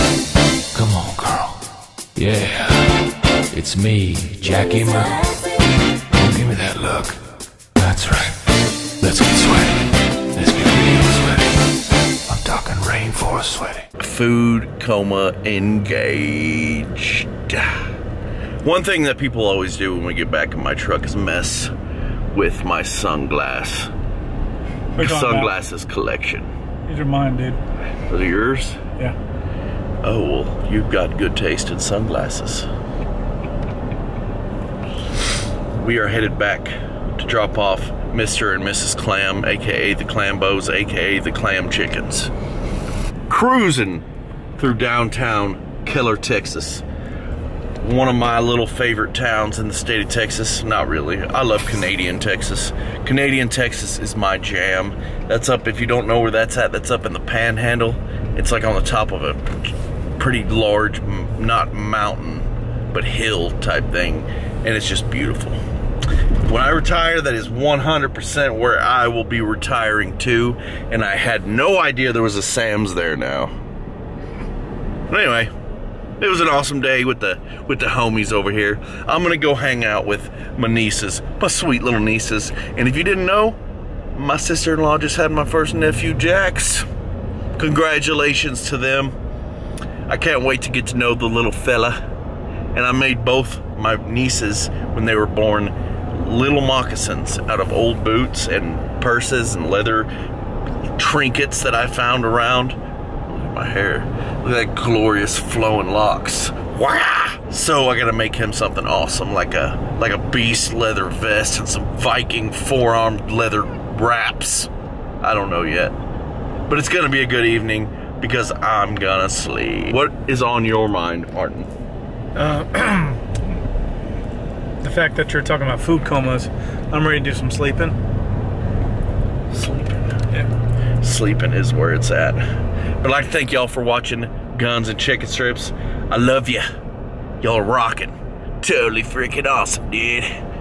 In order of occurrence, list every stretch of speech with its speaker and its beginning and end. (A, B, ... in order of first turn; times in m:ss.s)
0:00.7-0:05.5 A
0:06.1-0:07.2 A
0:07.8-0:11.7 A
0:12.2-0:13.8 A
0:14.0-0:17.9 B
0:18.6-0:21.7 B
0:22.3-0:23.9 B
0:24.9-0:26.5 B
0:25.0-0:25.5 C
0:26.8-0:27.6 C
0:28.1-0:28.8 B
0:30.0-0:32.7 B
0:35.8-0:42.3 B
0:43.3-0:44.0 B
0:44.6-0:46.8 B
0:47.8-1:05.6 B
1:06.4-1:13.5 B
1:15.1-1:15.5 B
1:16.2-1:23.6 B
1:24.1-1:26.8 B
1:27.6-1:29.1 B
1:30.1-1:32.0 B
1:32.7-1:40.1 B
1:40.9-1:42.8 B
1:43.3-1:54.7 B
1:55.2-1:55.9 B
1:56.6-2:01.7 B
2:02.4-2:03.2 C
2:04.8-2:08.0 C
2:09.5-2:10.1 B
2:11.0-2:12.4 B
2:13.0-2:16.6 B
2:17.4-2:20.3 B